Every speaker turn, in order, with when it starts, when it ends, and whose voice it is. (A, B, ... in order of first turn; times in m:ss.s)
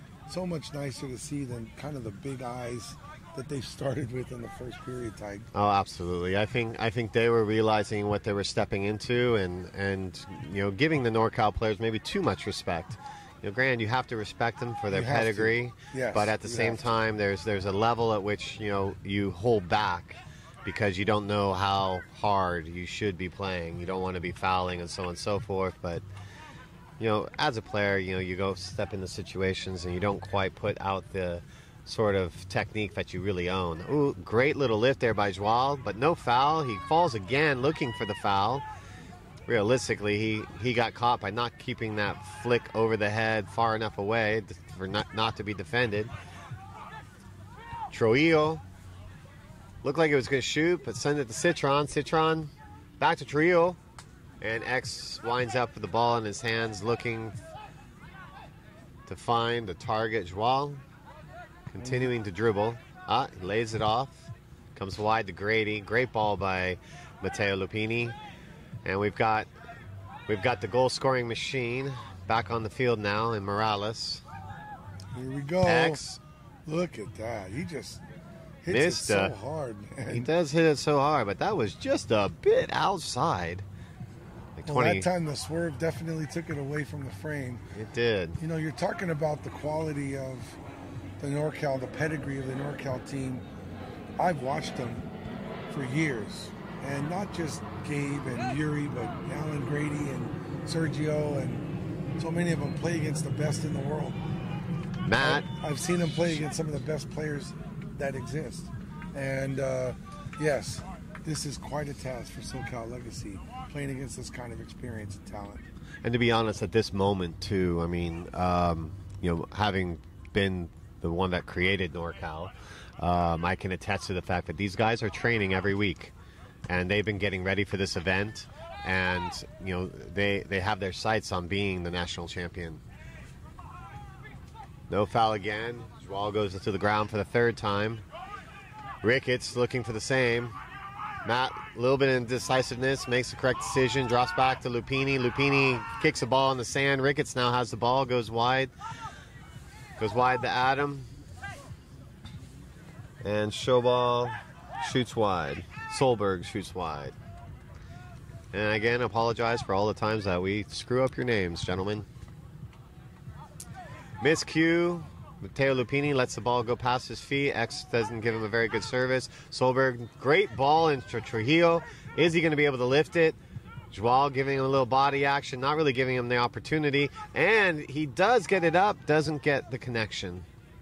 0:00.3-0:05.5 A
0:05.5-0:26.0 B
0:14.9-0:16.9 A
0:27.0-0:38.6 B
0:39.5-0:46.1 B
0:47.9-0:48.6 B
0:49.8-0:53.8 B
0:54.4-0:57.4 B
0:59.1-1:00.8 B
1:01.7-1:08.2 B
1:01.8-1:02.1 A
1:08.8-1:09.5 B
1:10.3-1:14.2 B
1:15.1-1:16.0 A
1:15.6-1:16.2 B
1:16.6-1:18.0 A
1:18.6-1:20.3 A
1:18.7-1:19.3 B
1:20.1-1:23.6 B
1:24.6-1:25.1 B
1:24.6-1:27.6 A
1:27.7-1:28.4 B
1:28.4-1:30.6 A
1:31.2-1:33.4 A
1:34.2-1:35.1 A
1:35.7-1:41.6 A
1:42.2-1:44.2 A
1:45.0-1:45.5 B
1:45.2-1:55.6 A
1:56.0-2:06.1 B
2:06.7-2:12.8 B
2:14.9-2:18.0 B
2:19.0-2:20.6 B
2:21.2-2:28.7 B
2:30.0-2:31.1 B
2:33.2-2:37.1 B
2:38.5-2:42.1 B
2:44.2-2:53.4 B
2:53.9-3:00.4 B